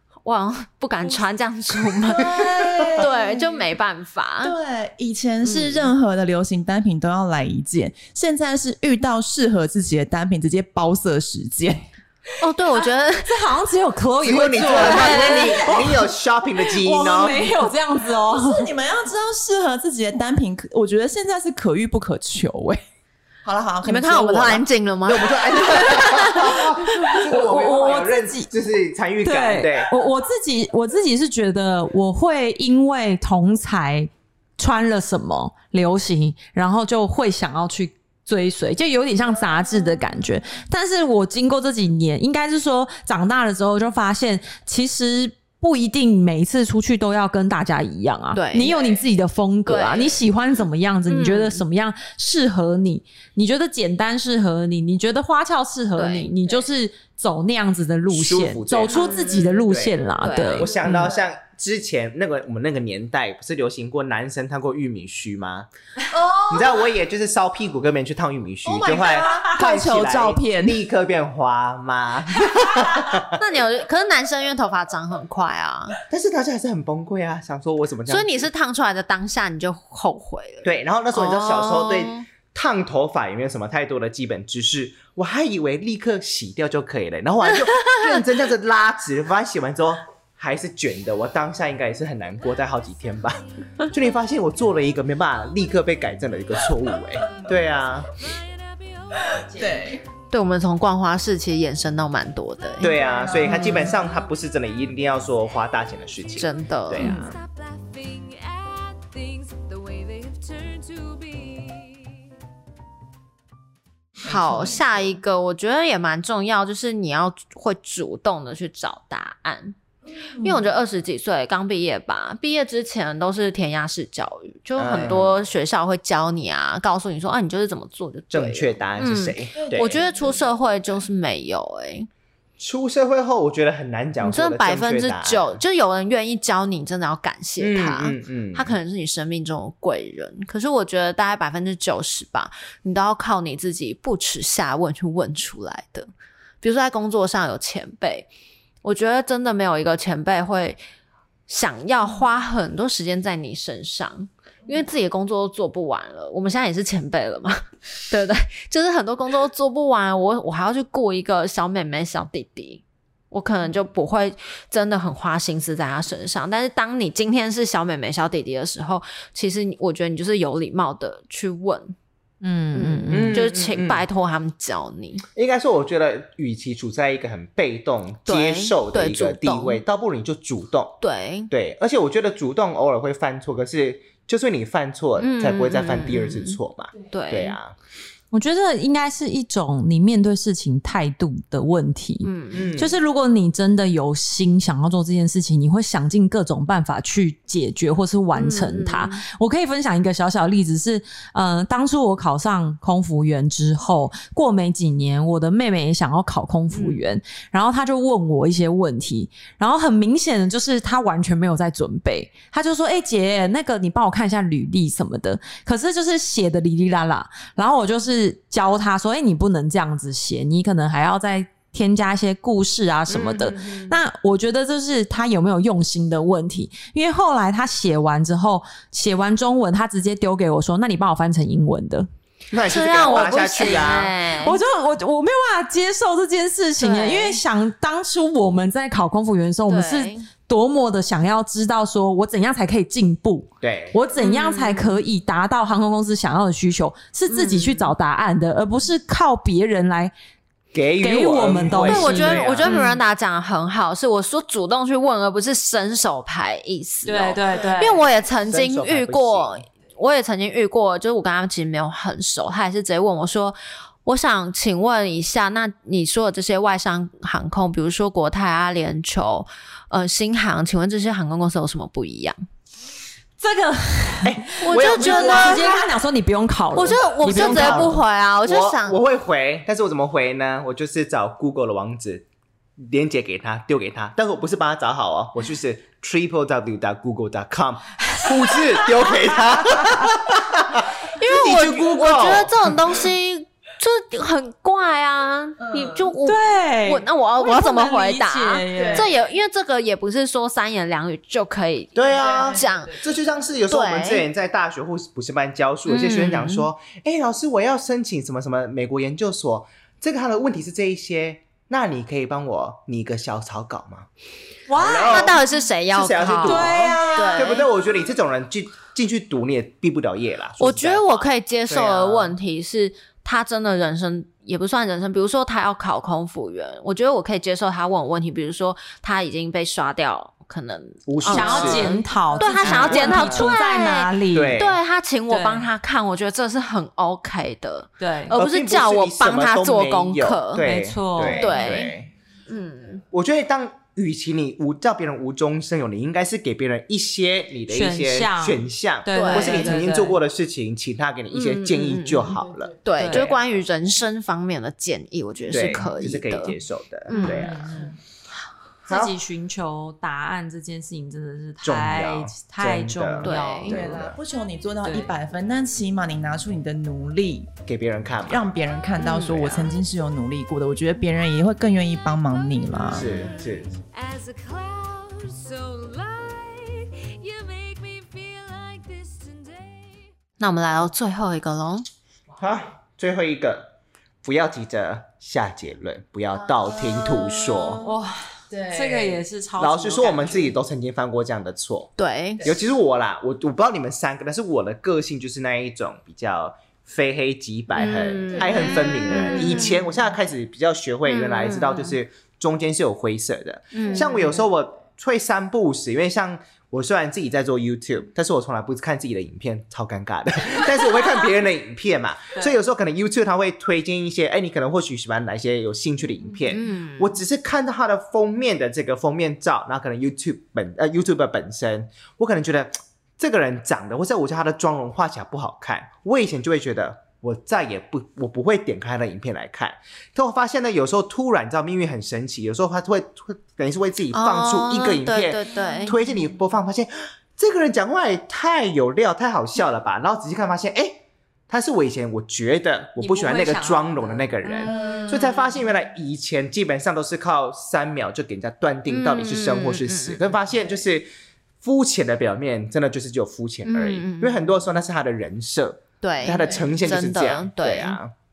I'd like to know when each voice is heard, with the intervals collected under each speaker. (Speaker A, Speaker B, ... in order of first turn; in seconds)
Speaker A: 0.2-4.5, 5.4-5.9, 12.4-13.3, 23.8-27.2, 48.3-49.0, 49.6-50.2, 51.1-51.6, 56.0-56.5, 58.9-59.4, 60.2-60.7, 73.3-76.0, 78.1-82.3, 100.3-103.9, 106.4-107.2, 114.2-119.8, 120.4-132.1, 134.2-146.1, 146.6-148.3, 148.8-150.8, 151.5-171.9, 172.7-175.2, 178.3-179.8, 181.0-181.5, 185.2-186.6, 187.1-187.6, 192.2-192.7, 198.3-199.2, 206.7-207.0, 232.6-234.6, 236.8-237.4, 239.7-240.3, 244.2-245.0, 247.3-247.9, 251.8-272.4, 274.6-275.9, 276.7-279.0, 291.1-303.0, 303.7-304.2, 305.9-306.7, 314.9-317.7, 320.6-340.6, 341.3-341.9, 342.5-343.0, 349.1-349.7, 351.3-356.5, 357.1-357.5, 363.2-363.8, 369.0-369.7, 380.4-381.9, 392.0-392.5, 397.7-399.9, 401.0-401.9, 403.7-404.3, 416.5-417.1, 434.1-435.9, 448.9-450.2, 453.6-454.4, 456.0-458.0
Speaker B: 2.1-3.6, 4.4-11.8, 14.5-15.5, 18.3-22.8, 23.4-24.6, 25.8-26.3, 66.1-66.9, 68.6-70.8, 99.4-100.0, 103.3-103.8, 120.2-120.7, 129.5-130.4, 295.6-296.1, 298.7-299.1, 302.1-303.1, 363.6-367.5, 368.2-373.1, 386.7-387.9, 388.5-389.2, 398.5-399.3
Speaker C: 13.2-18.7, 27.2-28.5, 29.2-61.1, 172.4-173.4, 188.3-232.1, 233.8-250.1, 251.0-253.0, 257.0-258.1, 273.4-278.0, 296.2-299.1, 314.7-315.3, 316.4-317.6, 331.3-334.6, 335.3-335.7, 338.0-338.3, 340.6-341.8, 347.7-350.2, 352.9-353.4, 357.1-358.0, 358.8-363.8, 364.8-365.1, 387.8-390.6, 435.5-436.2, 443.0-445.4
Speaker D: 14.2-17.4, 25.1-29.9, 58.1-59.0, 59.7-60.0, 60.5-65.7, 66.5-73.3, 76.1-78.5, 80.6-98.1, 102.8-107.4, 124.8-125.4, 128.3-130.0, 132.6-135.6, 137.6-138.7, 173.1-174.0, 175.3-187.7, 192.5-192.9, 223.1-224.0, 232.5-234.1, 243.6-244.0, 250.7-252.8, 258.5-259.6, 274.2-275.7, 277.2-282.2, 282.8-292.7, 301.9-314.1, 314.7-322.3, 331.1-332.0, 332.6-333.5, 334.3-334.8, 338.3-342.1, 343.1-353.2, 355.5-357.8, 358.9-359.1, 361.6-364.2, 367.7-368.4, 372.9-373.8, 382.4-387.8, 389.6-451.1, 451.6-458.1
Speaker E: 92.0-100.7, 102.3-106.4, 107.1-112.2, 372.3-380.1